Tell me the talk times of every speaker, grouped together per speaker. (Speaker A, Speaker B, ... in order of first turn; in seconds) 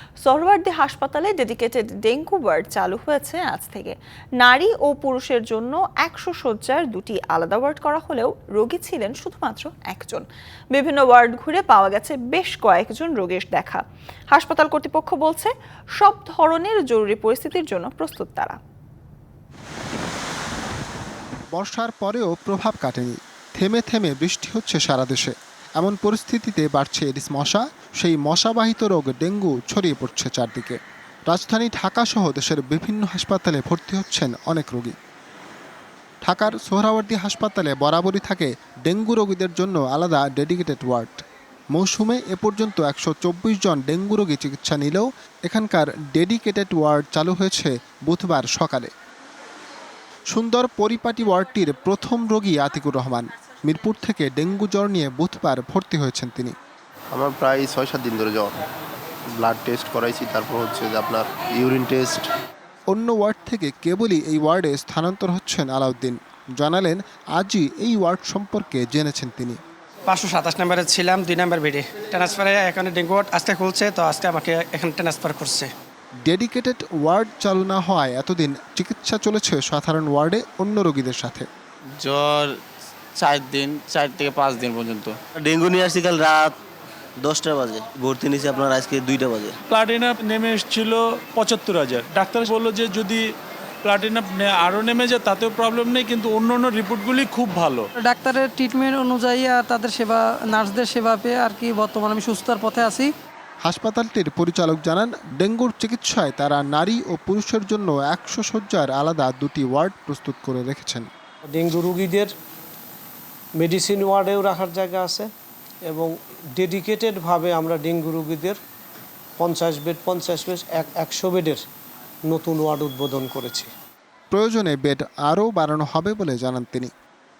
Speaker A: 0.2-18.6
Speaker B: 21.5-30.8, 31.3-34.9, 36.2-41.2, 41.7-48.9, 50.3-56.5, 62.9-69.6, 76.2-81.5, 103.6-111.1, 124.3-126.9
Speaker C: 57.1-58.6, 59.3-62.3
Speaker D: 70.1-75.7
Speaker E: 82.0-82.5, 83.2-85.2
Speaker F: 85.3-86.5, 87.2-89.5
Speaker G: 89.7-93.2, 93.8-97.9
Speaker H: 98.0-103.1
Speaker I: 111.5-112.3, 113.6-115.3, 116.6-118.6, 119.4-121.6, 122.3-123.7